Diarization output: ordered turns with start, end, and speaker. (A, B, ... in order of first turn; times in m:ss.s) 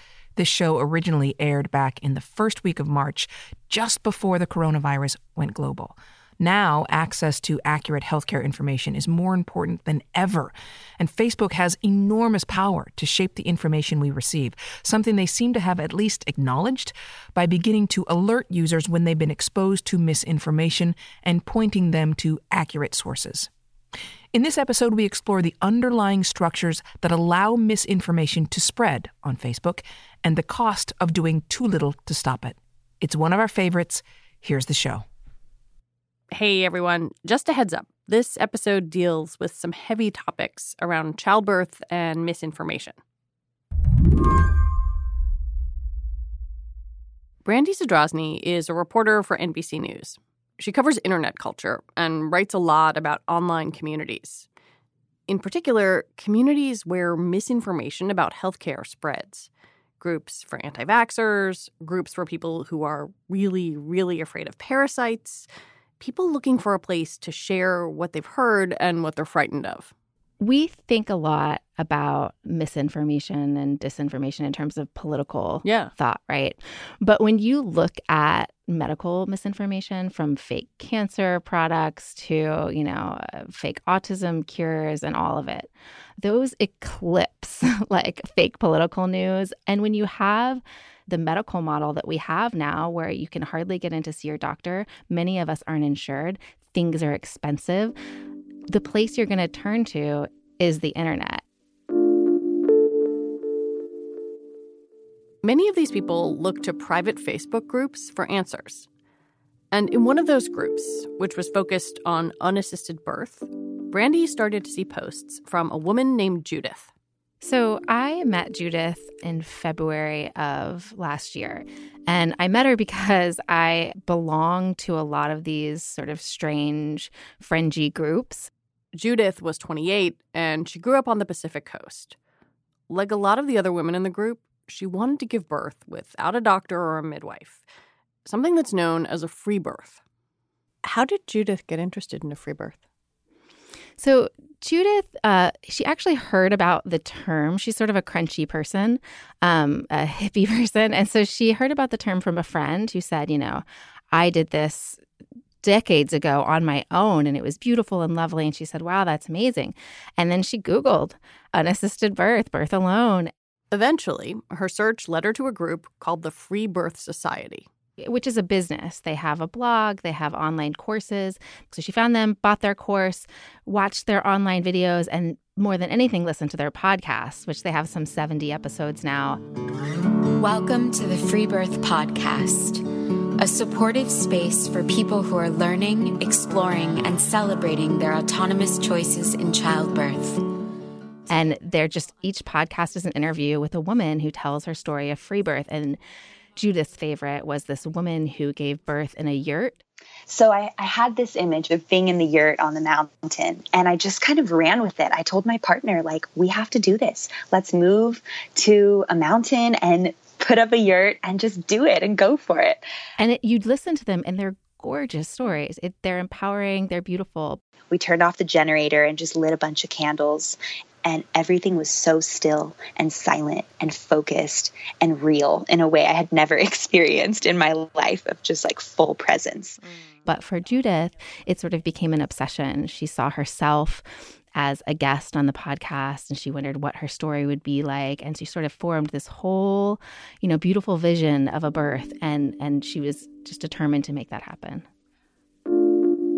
0:00.4-0:23.5 A
0:24.3-0:35.0 A
0:36.3-0:43.0 B
0:47.4-0:54.5 B
0:55.3-0:59.5 B
1:00.0-1:05.5 B
1:06.0-1:09.9 B
1:10.4-1:38.0 C
1:15.6-1:15.9 B
1:38.7-1:41.4 C
1:45.4-1:48.9 B
1:49.7-1:56.9 B
1:57.4-2:08.5 C
2:08.9-2:12.2 B
2:12.9-2:17.6 B
2:18.3-2:20.0 B
2:20.8-2:22.8 B
2:24.0-2:35.0 C
2:35.6-2:43.3 C
2:43.7-2:47.7 B
2:48.0-2:59.4 C
3:00.4-3:02.8 D
3:03.4-3:10.4 D
3:11.3-3:16.0 C
3:16.6-3:19.8 C
3:20.3-3:32.8 E
3:33.2-3:37.6 C
3:37.9-3:49.8 E
3:50.3-4:04.9 C